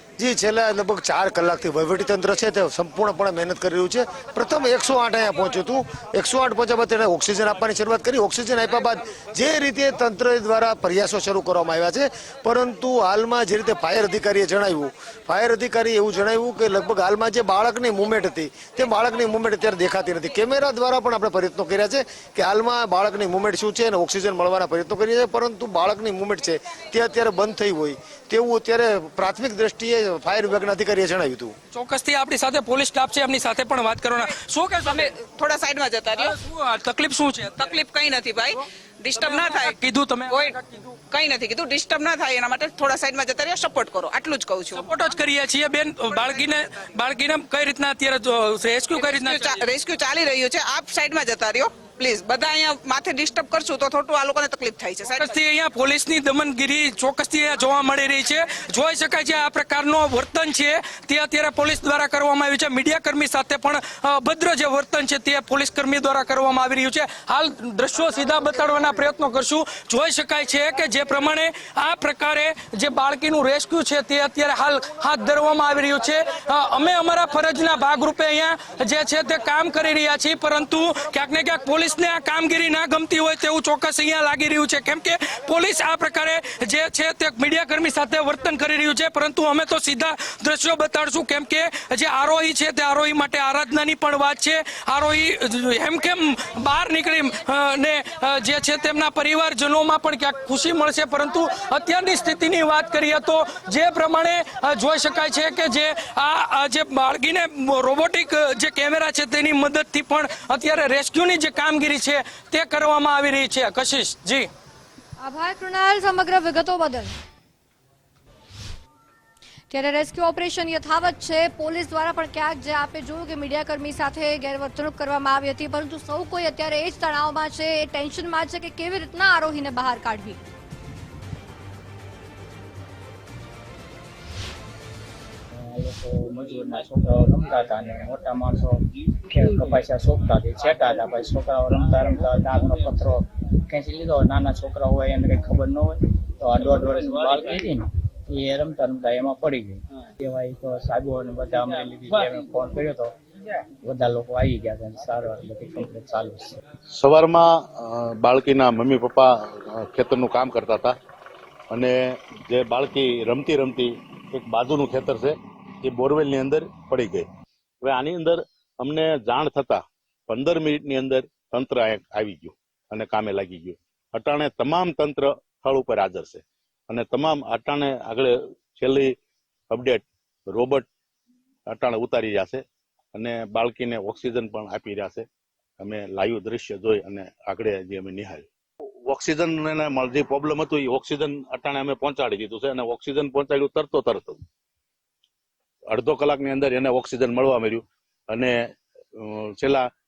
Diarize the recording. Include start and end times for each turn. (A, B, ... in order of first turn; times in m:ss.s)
0:00.2-0:31.6 A
0:31.7-0:35.1 B
0:34.8-0:36.3 C
0:36.2-0:37.7 B
0:37.6-0:39.8 C
0:39.1-0:40.9 B
0:40.3-0:40.6 C
0:41.1-0:44.9 C
0:44.8-0:49.6 B
0:46.1-0:46.4 C
0:48.9-0:55.3 C
0:55.1-1:54.5 B
1:55.2-1:57.1 D
1:59.7-2:10.4 D
2:15.6-2:33.1 E
2:33.8-2:36.6 E
2:36.9-2:40.9 F
2:41.7-2:45.3 F
2:45.8-2:47.2 F
2:47.8-2:59.1 F
2:59.7-3:00.8 F
3:01.7-3:02.6 F
3:03.1-3:05.2 F
3:05.8-3:08.4 F
3:09.1-3:14.4 F
3:15.9-3:18.5 F
3:19.2-3:19.8 F